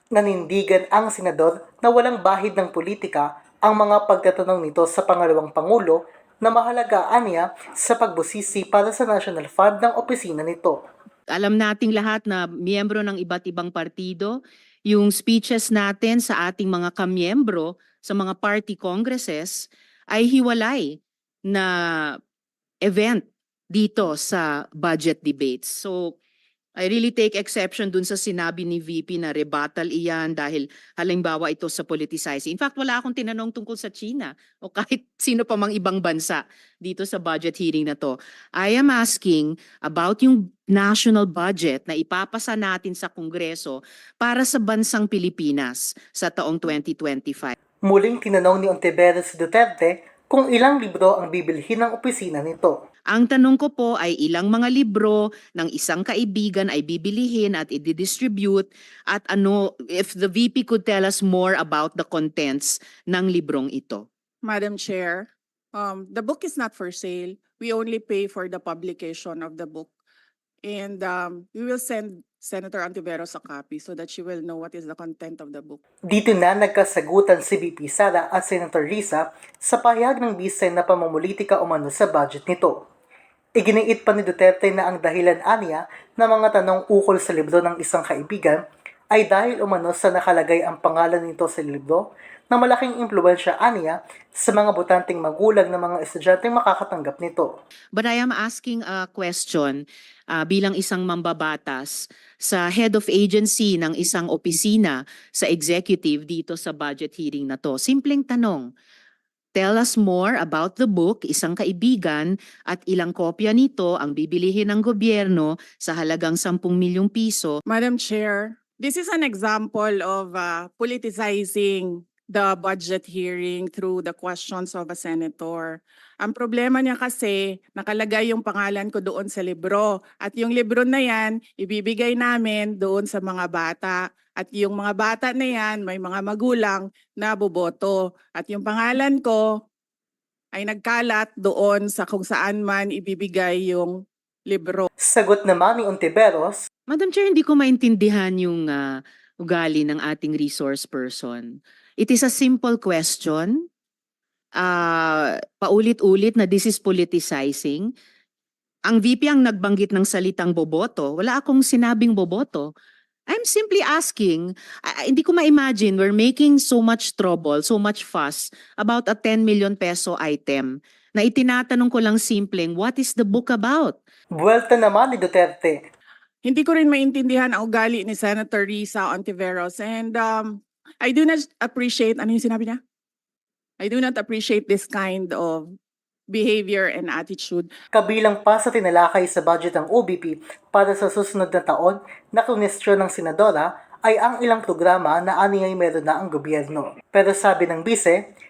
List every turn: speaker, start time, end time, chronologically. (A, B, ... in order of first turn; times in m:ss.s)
0:00.1-0:10.8 A
0:11.3-0:22.2 B
0:22.8-0:26.2 B
0:26.8-0:47.5 B
0:47.8-0:52.8 A
0:53.1-1:04.0 B
1:04.4-1:09.9 C
1:10.7-1:15.8 C
1:16.1-1:22.7 A
1:23.6-1:28.6 A
1:29.1-1:37.5 A
1:38.0-1:48.7 B
1:49.6-1:57.6 B
1:57.7-2:19.4 C
2:20.5-2:24.0 C
2:24.5-2:24.9 C
2:25.1-2:26.6 A
2:26.9-2:33.6 B
2:34.6-2:37.9 B
2:38.9-2:42.7 B
2:43.3-2:54.0 B
2:54.4-2:55.8 A
2:56.4-3:02.8 C
3:03.8-3:05.7 C
3:06.3-3:07.7 C
3:07.9-3:18.2 A